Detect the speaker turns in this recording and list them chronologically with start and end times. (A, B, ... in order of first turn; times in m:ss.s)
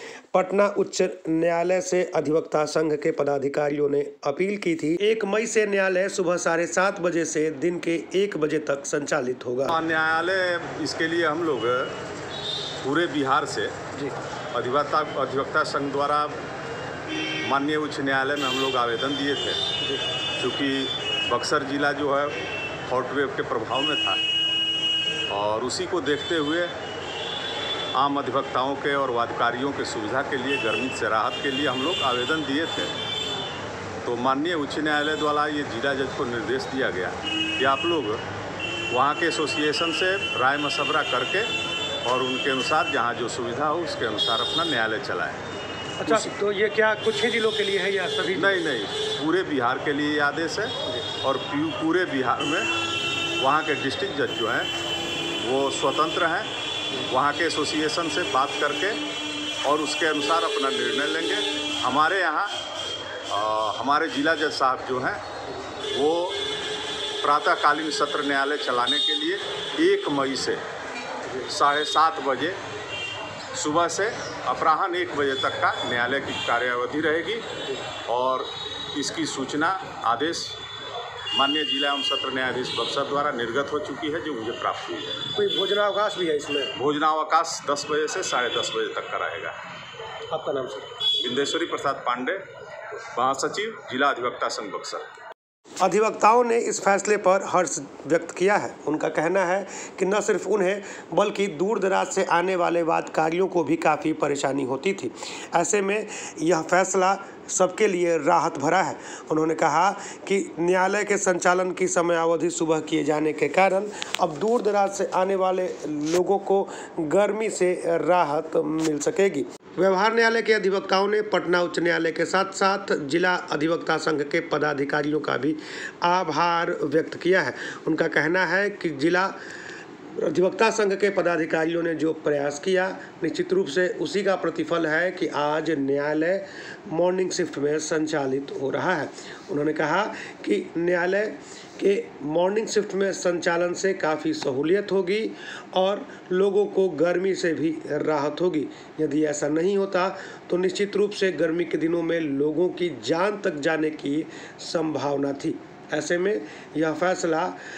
0:00.3-0:09.8 A
0:09.7-0:12.0 B
0:12.8-0:13.8 B
0:14.5-0:16.4 B
0:17.5-0:19.6 B
0:20.4-0:22.3 B
0:22.9-0:24.2 B
0:25.3-0:26.7 B
0:27.9-0:32.9 B
0:34.0-0:38.2 B
0:38.9-0:41.5 B
0:42.0-0:45.4 B
0:46.0-0:48.6 A
0:46.1-0:46.3 B
0:48.3-0:52.7 B
0:53.4-0:54.7 B
0:55.4-0:56.5 B
0:57.1-0:59.0 B
0:59.6-1:02.6 B
1:03.3-1:05.2 B
1:05.9-1:06.4 B
1:07.2-1:10.6 B
1:11.4-1:12.6 B
1:13.6-1:17.5 B
1:18.1-1:20.6 B
1:21.3-1:25.3 B
1:25.3-1:26.8 A
1:26.8-1:29.6 B
1:30.3-1:30.9 A
1:31.2-1:32.4 B
1:33.1-1:35.1 B
1:35.8-2:09.4 A
2:10.1-2:37.6 A